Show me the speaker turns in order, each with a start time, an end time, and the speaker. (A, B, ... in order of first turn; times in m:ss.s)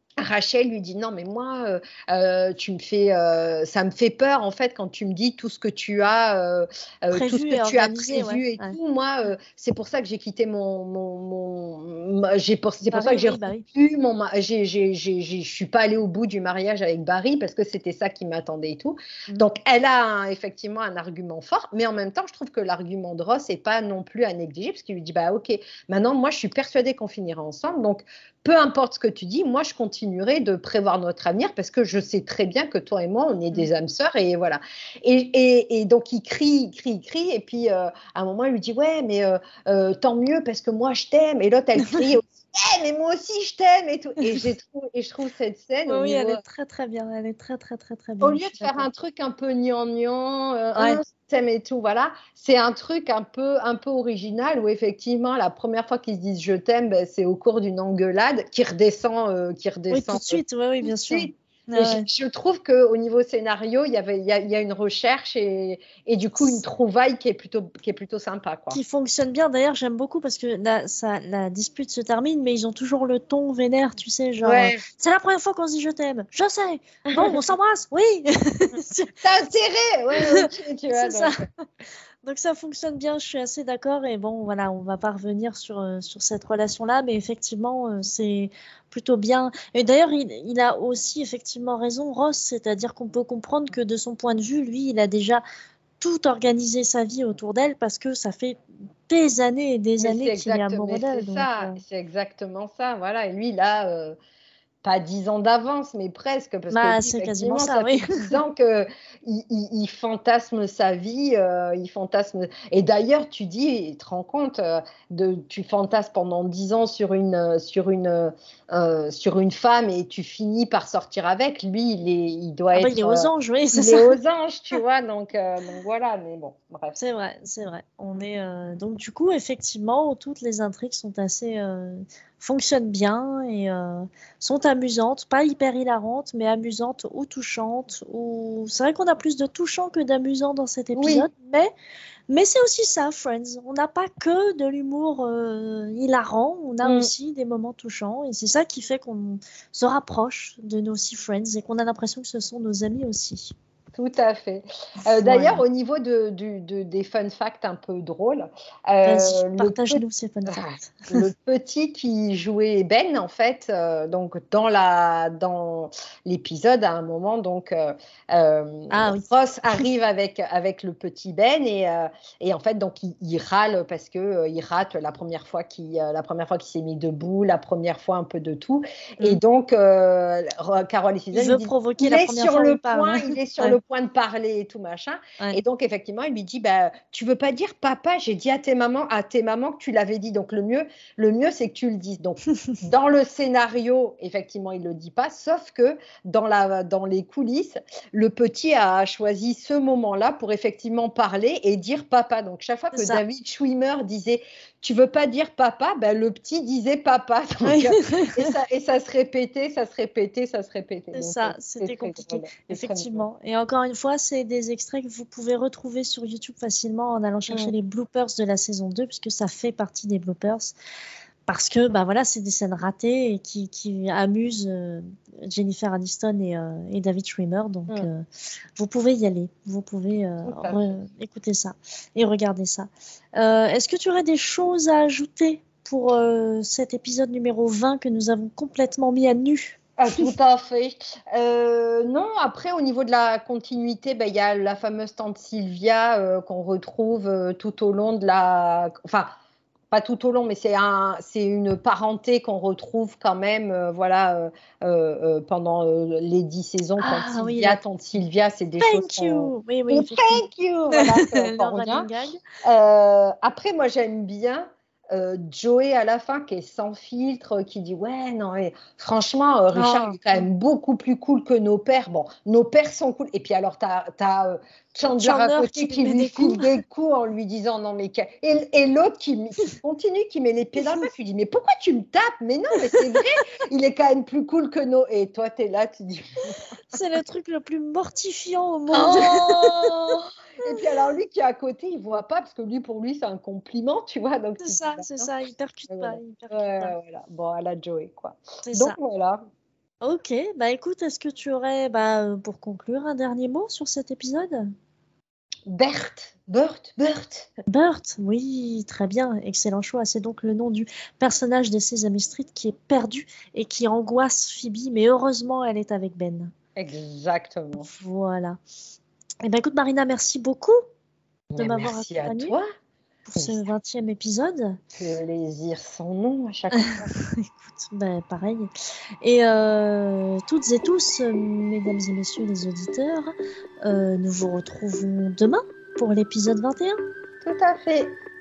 0:00.2-0:46.4 A
0:07.1-0:08.8 B
0:12.8-0:13.6 B
0:41.8-0:42.1 B
0:45.9-0:48.9 B
0:48.2-1:08.8 A
0:50.8-0:51.0 B
0:59.9-1:02.1 B
1:06.4-1:06.6 B
1:08.7-1:19.2 B
1:14.4-1:14.8 A
1:17.1-1:17.4 A
1:19.2-1:21.4 A
1:20.1-1:21.4 B
1:22.2-1:35.4 B
1:36.0-1:41.8 B
1:40.0-1:44.2 A
1:44.8-2:07.0 A
1:46.7-1:48.3 B
2:02.7-2:04.2 B
2:07.0-2:21.7 B
2:20.9-2:21.3 A
2:22.3-2:33.5 B
2:26.8-2:27.1 A
2:33.9-3:33.2 A
2:35.1-2:35.6 B
2:39.0-2:41.2 B
2:48.9-2:49.3 B
3:01.3-3:03.8 B
3:22.9-3:23.2 B
3:27.6-3:28.5 B
3:31.1-3:40.7 B
3:41.5-3:48.2 B
3:48.8-4:00.3 B
3:50.4-3:51.0 A
4:00.0-4:09.3 A
4:09.9-4:22.1 A
4:17.0-4:17.8 B
4:18.8-4:22.4 B
4:22.6-4:46.5 A
4:29.7-4:30.4 B
4:35.1-4:36.8 B
4:46.9-4:50.2 B
4:48.9-4:55.3 A
4:54.6-4:56.9 B
4:55.9-4:59.4 A
4:58.6-4:59.0 B
5:00.0-5:04.7 B
5:05.7-5:07.5 A
5:07.7-5:16.5 B
5:16.8-5:17.9 A
5:17.8-5:18.6 B
5:19.4-5:20.8 B
5:21.5-5:22.6 A
5:21.6-5:22.6 B
5:23.2-5:24.8 B
5:23.4-5:23.6 A
5:24.9-5:27.1 A
5:26.7-5:28.7 B
5:29.2-5:37.0 B
5:37.4-5:38.2 A